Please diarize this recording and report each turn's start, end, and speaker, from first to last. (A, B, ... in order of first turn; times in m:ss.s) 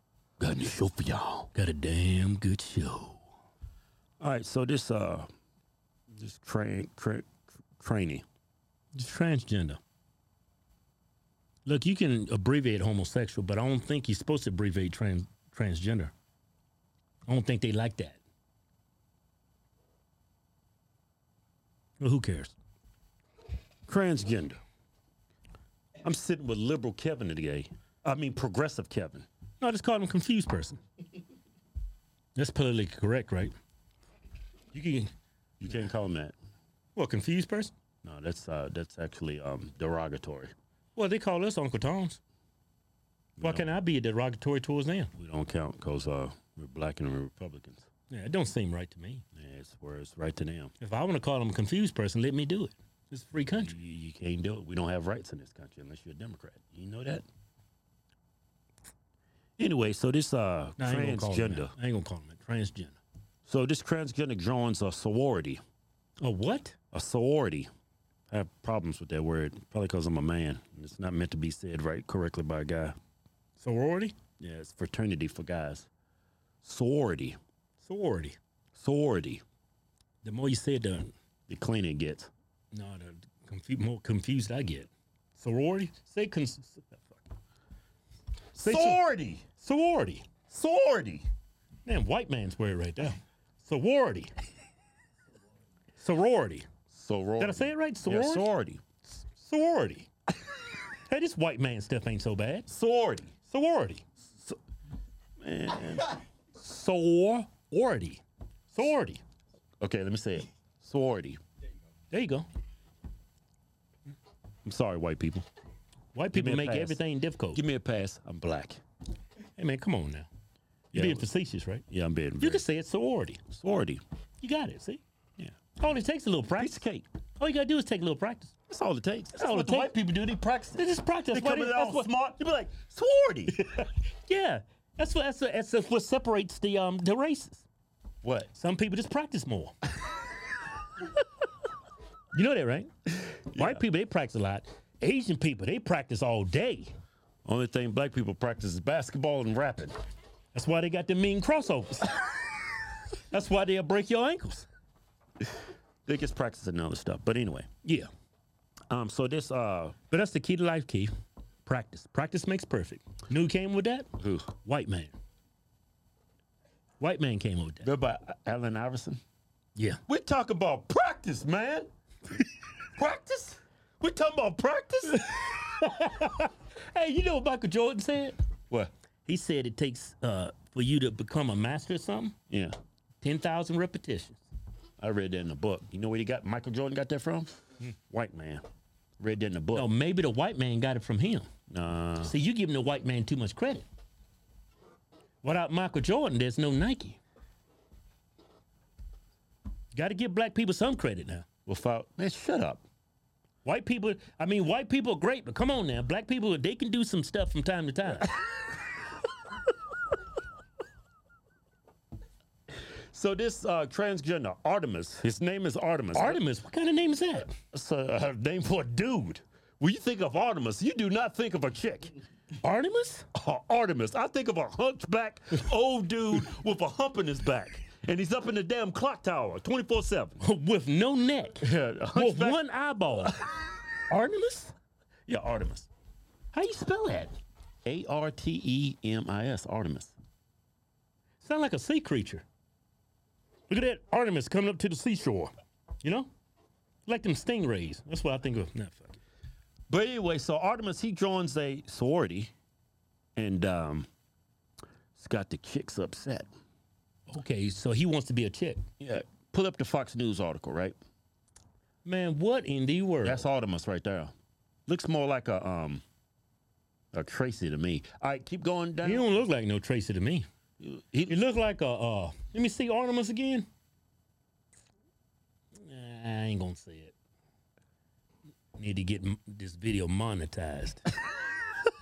0:00.4-0:01.5 A
0:01.5-0:03.2 B
0:04.2-0:05.3 A
0:06.1-0:08.2 A
0:09.0-0:09.8 B
0:11.6-0:16.1 B
0:17.3-0:18.2 B
0:22.0-0:22.6 B
0:23.9-0:24.6 A
0:26.0-0:29.3 A
0:29.6-0:30.8 B
0:32.4-0:33.5 B
0:34.7-0:35.1 B
0:35.6-0:36.3 A
0:37.0-0:37.7 B
0:38.0-0:40.5 A
0:41.0-0:42.2 B
0:43.4-0:43.7 A
0:43.4-0:45.1 B
0:45.2-0:47.9 A
0:48.1-0:49.2 B
0:49.4-0:50.7 A
0:50.8-0:53.7 B
0:53.6-0:57.2 A
0:59.6-1:01.7 A
1:00.8-1:03.0 B
1:03.5-1:05.6 A
1:06.2-1:06.8 B
1:06.9-1:07.7 A
1:08.3-1:13.0 A
1:13.6-1:14.1 B
1:14.4-1:15.9 A
1:16.6-1:17.4 A
1:17.8-1:18.4 B
1:18.8-1:19.4 A
1:20.2-1:21.1 B
1:21.5-1:22.3 A
1:22.7-1:27.0 B
1:28.6-1:29.4 A
1:28.6-1:29.0 B
1:29.6-1:30.3 B
1:30.5-1:31.2 A
1:31.8-1:34.3 B
1:36.0-1:36.7 B
1:36.9-1:38.8 A
1:37.4-1:38.5 B
1:39.1-1:40.1 B
1:41.1-1:42.7 B
1:42.7-1:43.3 A
1:43.5-1:44.0 B
1:45.4-1:46.2 A
1:46.6-1:49.2 B
1:49.8-1:51.4 A
1:52.1-1:52.4 B
1:54.6-1:55.4 A
1:56.1-1:57.6 B
1:56.3-1:57.0 A
1:57.5-1:58.8 A
1:59.6-2:00.3 B
2:00.9-2:01.3 A
2:00.9-2:01.8 B
2:01.9-2:02.6 A
2:02.4-2:03.4 B
2:03.5-2:04.0 A
2:04.4-2:05.0 B
2:05.8-2:06.8 B
2:06.6-2:07.1 A
2:07.4-2:08.5 B
2:08.7-2:13.6 A
2:09.4-2:09.9 B
2:10.8-2:12.1 B
2:13.5-2:17.6 B
2:18.2-2:18.5 A
2:18.6-2:19.8 B
2:22.3-2:26.9 B
2:23.5-2:23.8 A
2:27.5-2:30.0 A
2:30.5-2:32.3 B
2:33.3-2:34.7 B
2:36.1-2:37.7 A
2:38.9-2:40.0 A
2:40.1-2:41.1 B
2:41.7-2:44.1 B
2:44.2-2:44.6 A
2:44.6-2:45.1 B
2:47.0-2:47.9 B
2:47.8-2:49.2 A
2:49.8-2:50.0 B
2:50.1-2:51.9 A
2:53.0-2:55.6 A
2:55.2-2:58.4 B
2:59.3-3:02.4 B
3:02.5-3:02.8 A
3:03.2-3:04.4 B
3:05.0-3:07.5 A
3:08.1-3:08.6 A
3:09.2-3:09.9 A
3:09.8-3:11.5 B
3:11.7-3:12.3 A
3:12.2-3:13.8 B
3:15.4-3:17.2 B
3:19.9-3:21.5 B
3:21.7-3:22.8 A
3:23.6-3:28.3 B
3:33.1-3:36.4 A
3:36.1-3:37.5 B
3:37.7-3:42.2 A
3:42.6-3:43.3 B
3:43.3-3:50.4 A
3:50.4-3:53.3 B
3:51.6-3:52.6 A
3:54.1-3:54.7 B
3:55.3-3:55.9 A
3:56.5-3:57.3 B
3:57.8-4:00.1 A
4:01.4-4:02.4 B
4:03.7-4:06.3 B
4:07.1-4:09.2 B
4:09.9-4:12.5 A
4:13.4-4:14.1 A
4:15.2-4:16.5 A
4:17.3-4:18.8 B
4:19.0-4:21.0 A
4:22.0-4:23.4 B
4:23.2-4:24.3 A
4:24.9-4:26.0 A
4:27.1-4:29.2 A
4:29.0-4:30.4 B
4:30.8-4:31.4 A
4:31.3-4:33.7 B
4:35.8-4:37.1 B
4:38.8-4:41.0 B